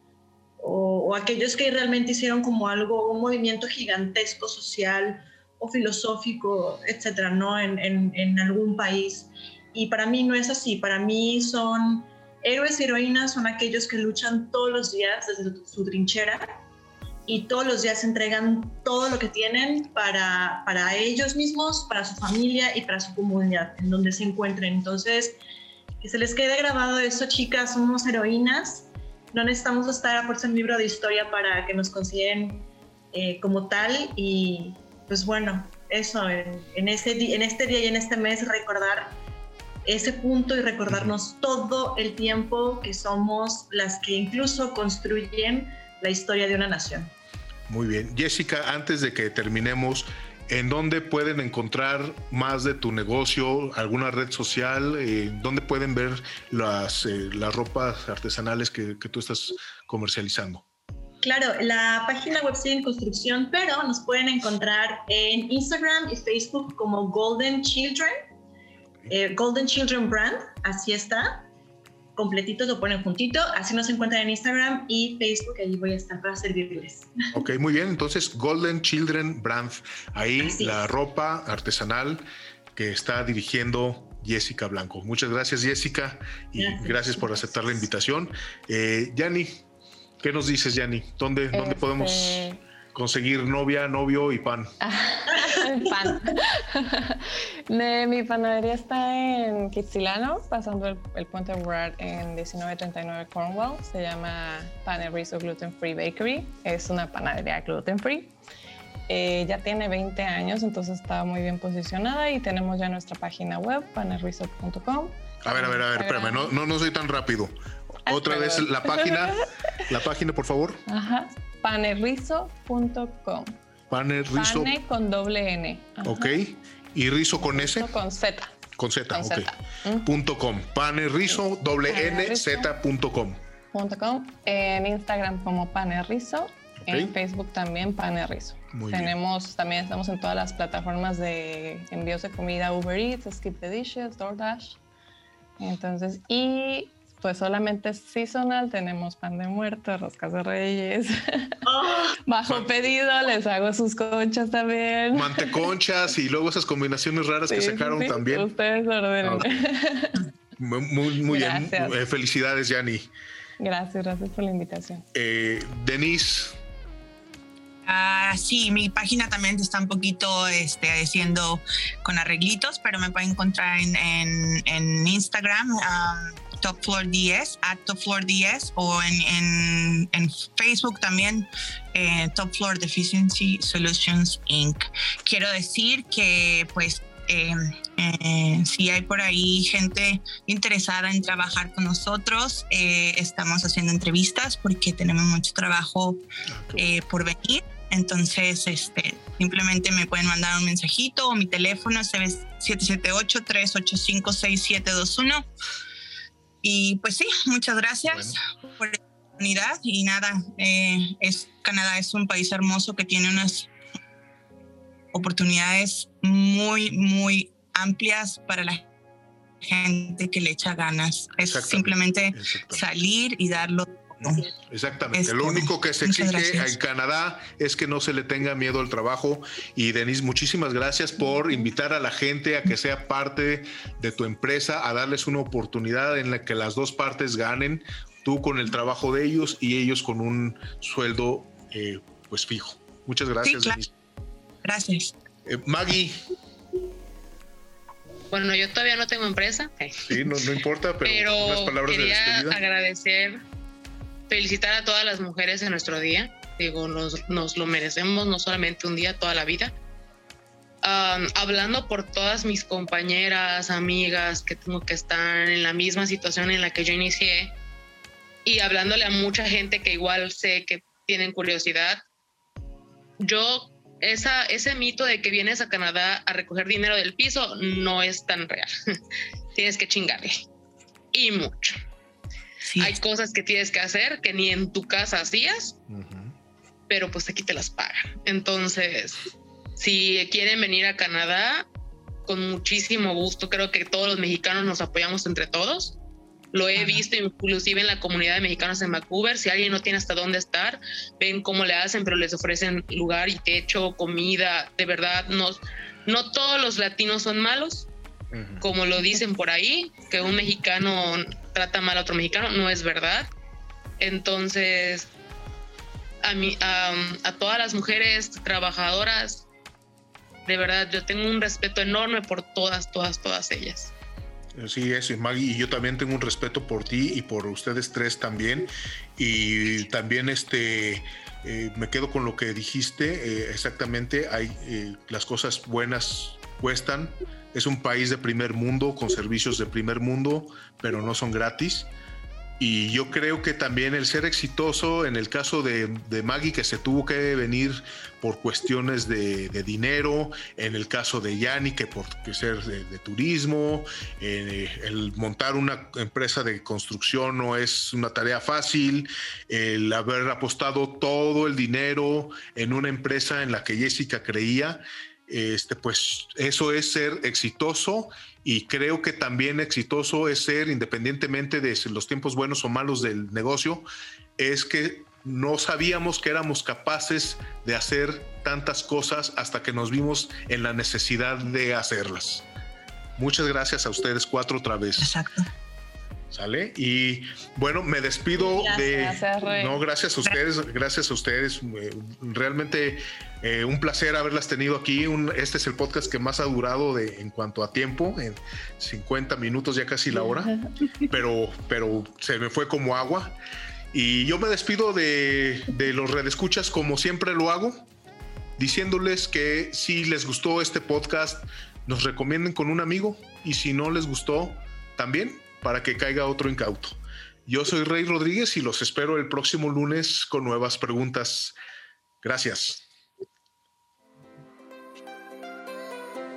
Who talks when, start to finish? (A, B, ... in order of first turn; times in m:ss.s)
0:00.6-0:16.6 A
0:17.3-0:25.4 A
0:26.0-0:39.2 A
0:39.8-0:47.1 A
0:40.9-0:41.1 B
0:47.7-1:00.6 B
1:01.2-1:08.1 A
1:09.1-1:11.5 A
1:12.2-1:17.1 A
1:17.3-1:29.6 B
1:20.4-1:20.9 A
1:26.6-1:27.7 A
1:30.2-1:34.7 B
1:31.5-1:32.6 C
1:34.8-1:48.4 C
1:49.1-1:56.5 C
1:55.4-1:57.5 B
1:58.1-1:59.5 C
1:58.1-2:00.8 B
2:00.9-2:03.6 C
2:03.9-2:04.8 B
2:04.3-2:06.4 C
2:06.0-2:07.9 B
2:07.4-2:08.6 C
2:08.8-2:13.4 B
2:09.1-2:10.1 C
2:11.9-2:12.7 C
2:13.7-2:24.8 C
2:16.8-2:17.1 B
2:18.7-2:19.2 B
2:25.6-2:31.6 C
2:31.7-2:32.2 A
2:32.1-2:35.7 C
2:32.4-2:32.7 B
2:35.1-2:38.5 B
2:37.5-2:40.2 C
2:39.2-2:39.6 B
2:40.6-2:43.1 B
2:41.2-2:42.0 C
2:43.6-2:45.0 C
2:45.1-2:46.6 B
2:47.8-3:16.2 D
3:16.5-3:16.9 B
3:16.8-3:25.4 D
3:26.6-3:33.7 D
3:28.1-3:28.4 B
3:35.1-3:38.8 D
3:39.6-3:44.5 D
3:41.4-3:42.8 B
3:44.2-4:03.9 B
3:45.1-3:46.8 D
4:03.4-4:03.8 D
4:04.6-4:05.2 D
4:05.5-4:06.2 B
4:08.3-4:10.0 E
4:10.0-4:12.6 B
4:11.0-4:13.4 E
4:14.3-4:19.7 E
4:20.8-4:27.5 E
4:28.4-4:32.0 E
4:33.2-4:38.7 E
4:39.6-4:40.4 E
4:41.1-4:41.8 E
4:42.6-4:43.0 D
4:42.8-4:45.8 E
4:45.9-4:46.4 B
4:46.9-4:49.2 E
4:49.8-4:51.7 E
4:52.3-4:56.0 E
4:56.5-5:07.9 E
4:56.8-4:57.0 D
5:08.3-5:08.6 B
5:08.6-5:13.3 E
5:14.0-5:15.1 E
5:16.2-5:19.5 E
5:20.5-5:23.9 E
5:24.6-5:41.9 B
5:42.6-6:13.9 B
6:14.4-6:22.5 B
6:23.2-6:25.1 B
6:25.0-6:25.5 D
6:26.3-6:40.6 B
6:28.4-6:29.0 A
6:28.6-6:29.8 C
6:40.2-6:40.7 C
6:41.1-6:43.4 B
6:43.9-6:47.9 B
6:48.6-7:01.6 B
7:02.2-7:02.8 B